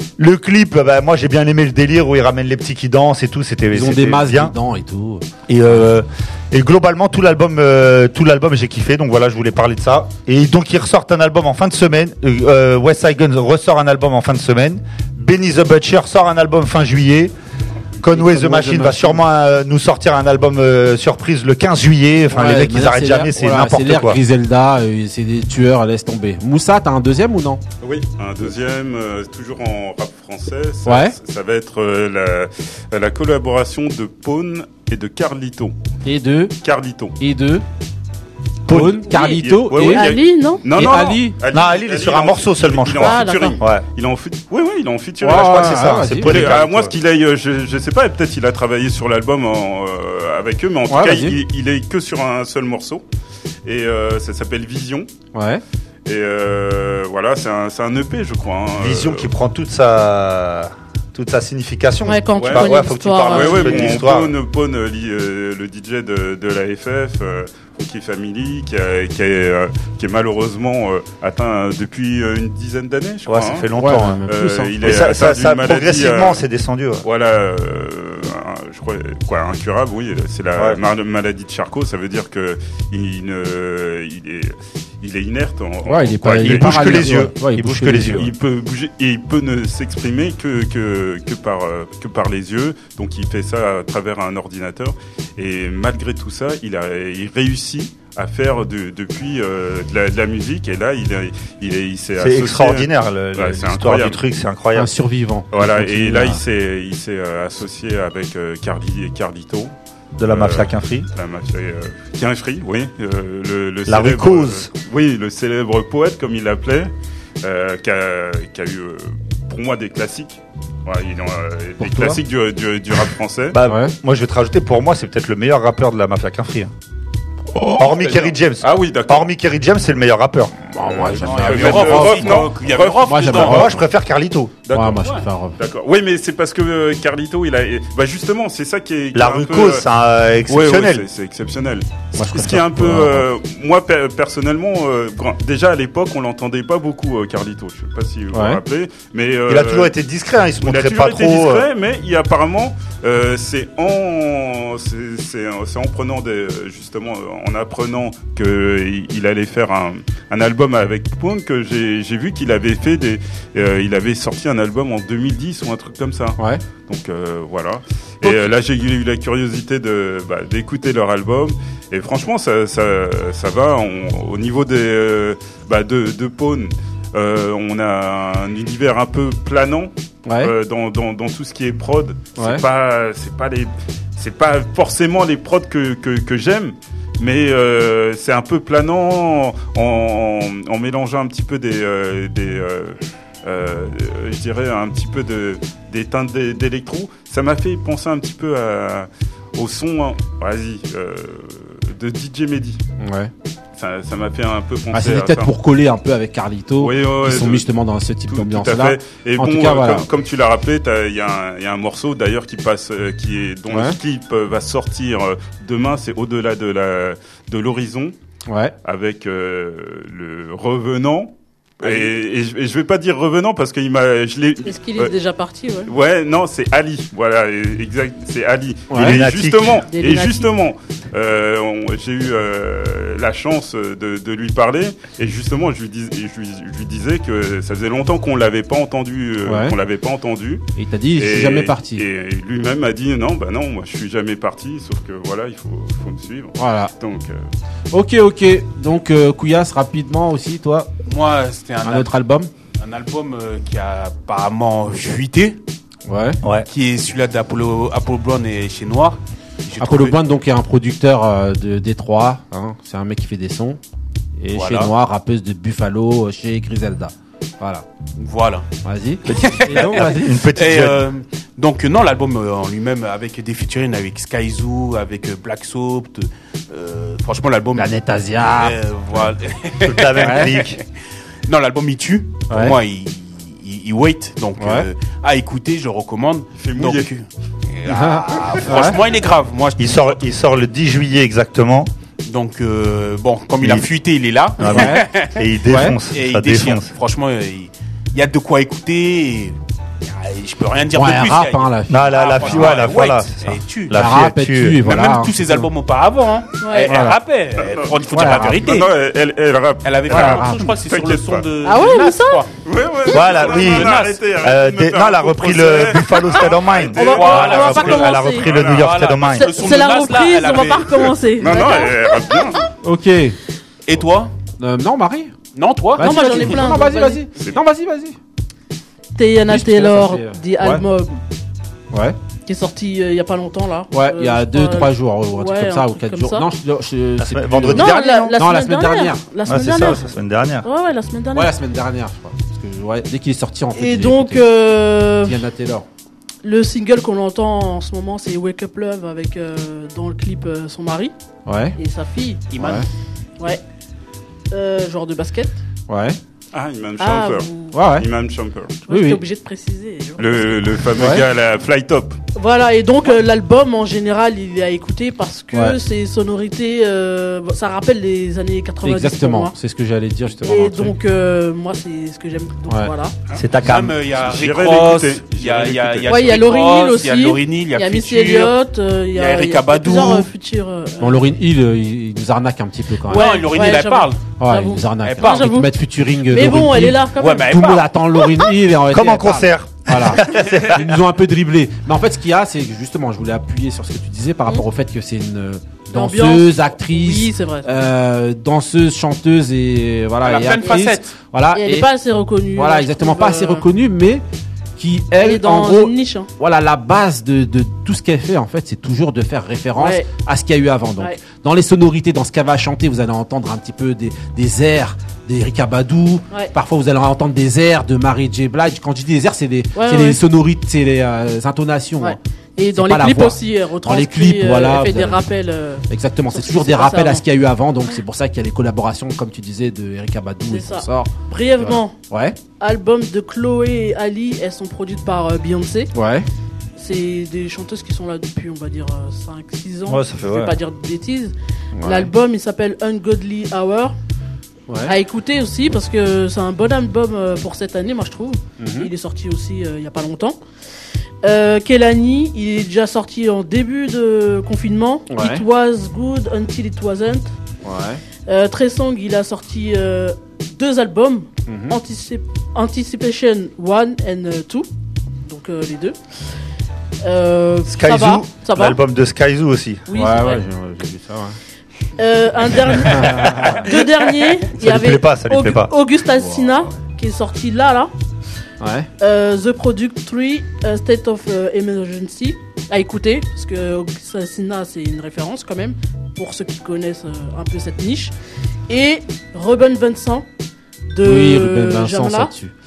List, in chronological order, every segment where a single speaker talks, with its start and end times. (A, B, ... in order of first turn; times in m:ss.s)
0:00.2-0:04.5 A
0:03.7-0:05.8 B
0:05.5-0:17.3 A
0:18.0-0:24.2 A
0:18.0-0:19.2 B
0:22.3-0:27.6 B
0:27.8-0:35.7 C
0:30.9-0:31.2 B
0:36.0-0:36.6 B
0:36.6-0:37.2 C
0:37.2-0:37.6 B
0:38.7-0:40.1 B
0:38.7-0:39.0 A
0:39.1-0:40.7 D
0:39.3-0:53.0 C
0:40.7-0:41.4 B
0:41.5-0:43.8 A
0:43.0-0:43.6 D
0:45.2-0:46.5 B
0:45.2-0:46.9 A
0:50.9-0:51.4 B
0:53.6-0:55.1 C
0:55.3-0:55.6 B
0:56.1-0:59.3 C
0:58.8-1:04.3 A
1:02.1-1:04.0 D
1:02.4-1:13.7 C
1:13.3-1:14.2 A
1:13.8-1:14.8 B
1:14.3-1:16.4 C
1:14.8-1:17.0 A
1:17.0-1:27.3 C
1:25.8-1:28.3 B
1:26.4-1:28.3 A
1:28.1-1:44.2 C
1:42.2-1:44.9 A
1:44.8-1:46.4 B
1:45.5-1:49.7 C
1:50.2-1:51.1 A
1:50.3-1:56.9 C
1:53.9-1:54.7 A
1:57.4-2:03.6 C
2:01.8-2:02.2 B
2:03.5-2:06.7 A
2:03.6-2:03.9 B
2:07.6-2:09.3 C
2:07.7-2:10.5 A
2:10.7-2:12.5 B
2:11.2-2:13.7 E
2:11.3-2:13.7 C
2:13.1-2:13.8 B
2:13.3-2:14.6 A
2:14.7-2:19.8 C
2:14.7-2:15.6 B
2:19.1-2:21.1 A
2:20.5-2:29.9 C
2:22.2-2:23.3 B
2:28.3-2:28.6 B
2:29.5-2:31.7 A
2:30.6-3:22.8 C
2:48.2-2:48.5 B
3:00.3-3:00.5 B
3:02.4-3:02.6 B
3:23.0-3:23.3 B
3:23.8-3:25.5 C
3:24.9-3:30.1 B
3:26.8-3:27.7 C
3:28.3-3:38.1 C
3:33.7-3:34.0 B
3:38.5-3:38.7 B
3:38.8-3:45.1 C
3:44.6-3:45.9 D
3:45.9-4:00.6 C
3:48.9-3:49.2 B
3:49.0-3:49.8 A
3:49.9-3:50.5 D
3:59.5-3:59.8 B
4:00.8-4:02.0 B
4:01.2-4:07.5 C
4:06.6-4:06.9 B
4:07.9-4:10.9 B
4:11.1-4:12.1 E
4:11.8-4:12.5 B
4:12.8-4:15.6 E
4:16.1-4:16.4 B
4:16.7-4:20.2 E
4:19.8-4:23.8 B
4:24.4-4:27.9 B
4:24.6-4:24.9 E
4:28.2-4:28.7 E
4:28.8-4:30.4 B
4:29.3-4:38.0 E
4:29.4-4:31.0 A
4:37.8-4:38.8 B
4:38.5-4:40.9 E
4:39.8-4:40.8 A
4:40.2-4:40.5 B
4:41.5-4:50.2 E
4:42.5-4:42.8 B
4:44.6-4:44.9 B
4:46.6-4:47.1 C
4:47.9-4:49.0 B
4:49.8-4:51.9 A
4:52.2-4:55.5 E
4:53.6-4:53.9 A
4:54.6-4:56.9 A
4:54.7-4:55.0 B
4:55.7-4:56.0 B
4:56.1-5:04.0 E
5:00.9-5:02.1 B
5:01.9-5:04.8 A
5:02.4-5:03.0 C
5:03.9-5:05.7 B
5:04.8-5:08.9 E
5:06.6-5:06.9 D
5:06.9-5:07.2 B
5:07.6-5:11.5 C
5:08.1-5:08.6 B
5:09.8-5:12.5 E
5:10.1-5:10.7 B
5:11.6-5:12.4 D
5:12.6-5:19.1 C
5:13.1-5:19.6 A
5:13.4-5:14.2 E
5:16.9-5:18.5 D
5:17.0-5:21.1 E
5:19.2-5:22.6 D
5:21.4-5:22.6 C
5:22.8-5:23.4 B
5:23.9-5:24.3 E
5:24.6-5:25.3 B
5:25.6-5:26.8 E
5:26.0-5:28.2 B
5:26.0-5:27.2 D
5:29.2-5:31.2 D
5:29.5-5:30.8 B
5:31.9-5:32.2 B
5:32.5-5:36.4 D
5:33.9-5:39.2 B
5:37.2-5:38.4 A
5:37.7-5:40.1 D
5:39.4-5:40.7 A
5:40.6-5:41.5 D
5:41.3-5:44.4 B
5:43.8-5:45.4 D
5:45.2-5:45.9 B
5:46.4-5:51.1 D
5:51.5-5:51.8 B
5:51.8-5:52.4 D
5:52.5-5:52.9 E
5:52.6-5:52.9 B
5:54.5-5:55.6 D
5:55.9-5:56.2 B
5:56.5-5:58.8 C
5:57.0-5:57.7 D
5:57.7-5:58.1 B
5:58.9-6:00.6 D
5:58.9-5:59.2 B
6:00.2-6:02.2 C
6:00.9-6:01.2 B
6:02.4-6:09.5 D
6:05.5-6:05.8 B
6:08.8-6:11.0 B
6:10.4-6:13.1 D
6:13.4-6:14.0 A
6:13.6-6:18.6 E
6:14.2-6:16.4 C
6:16.1-6:21.3 D
6:19.1-6:20.3 E
6:21.0-6:23.4 B
6:23.1-6:25.7 D
6:23.1-6:24.2 E
6:24.4-6:41.9 B
6:25.0-6:25.5 E
6:26.2-6:27.7 D
6:27.2-6:27.9 E
6:28.9-6:30.9 A
6:35.9-6:37.7 D
6:40.2-6:41.2 E
6:41.6-6:43.6 D
6:42.6-6:44.2 B
6:44.8-7:02.2 B
6:45.2-6:46.3 D
6:49.8-6:50.0 D
6:59.8-7:00.2 D
7:02.0-7:07.2 D
7:02.7-7:05.3 B
7:05.9-7:12.4 B
7:10.5-7:12.0 D
7:12.6-7:15.9 D
7:15.9-7:16.3 B
7:16.8-7:24.0 D
7:19.9-7:20.6 A
7:21.7-7:22.1 B
7:24.7-7:24.9 B
7:24.9-7:30.4 D
7:28.6-7:28.9 B
7:31.2-7:37.3 D
7:35.1-7:35.4 B
7:37.6-7:38.0 B
7:38.3-7:44.7 D
7:41.5-7:41.8 B
7:45.2-7:46.0 D
7:47.0-7:48.8 D
7:47.7-7:49.9 A
7:49.9-7:50.4 D
7:49.9-7:51.4 B
7:52.0-7:57.9 D
7:52.8-7:53.7 B
7:54.5-7:55.7 A
7:56.2-7:56.6 B
7:58.6-7:58.9 B
7:59.0-8:08.1 D
8:08.7-8:10.2 D
8:10.9-8:12.3 D
8:11.0-8:12.5 B